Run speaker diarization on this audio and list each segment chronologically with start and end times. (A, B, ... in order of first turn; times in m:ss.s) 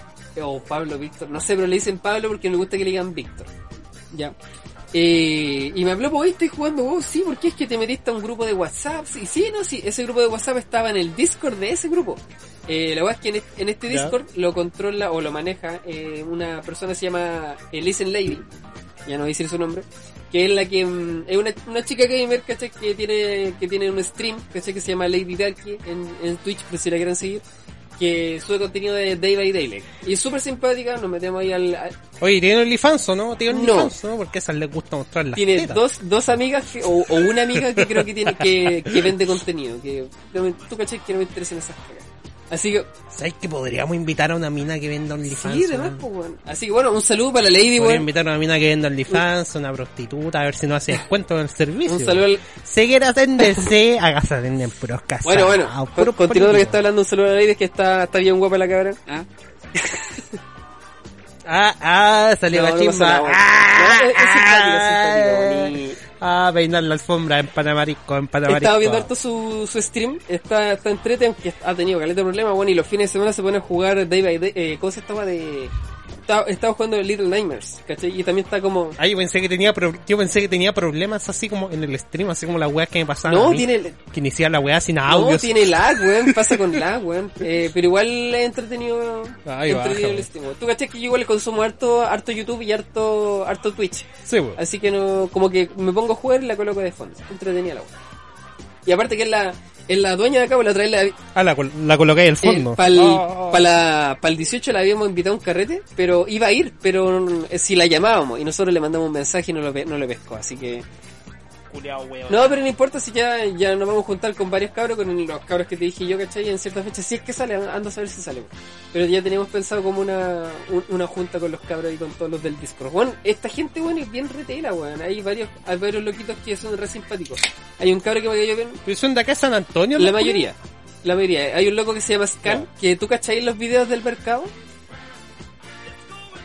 0:00.4-0:03.5 A
0:04.9-0:18.4 A
0:13.9-0:14.2 B
0:19.0-0:27.4 A
0:28.0-0:32.0 A
0:32.2-0:35.8 B
0:33.5-0:33.9 A
0:35.3-0:42.9 A
0:36.9-0:39.2 B
0:43.1-0:46.0 B
0:45.3-0:48.1 A
0:47.8-0:56.8 B
0:51.8-0:52.4 A
0:53.4-0:53.7 A
0:55.2-1:00.3 A
1:01.4-1:09.1 B
1:02.5-1:06.0 A
1:08.4-1:15.7 A
1:16.3-1:19.0 A
1:19.0-1:26.8 B
1:23.2-1:24.0 A
1:25.0-1:37.9 A
1:29.4-1:30.3 B
1:34.2-1:34.6 B
1:38.8-1:41.2 A
1:41.3-1:43.7 B
1:42.4-1:50.8 A
1:51.7-1:52.6 B
1:52.3-2:08.8 A
2:08.8-2:10.4 B
2:10.0-2:14.5 A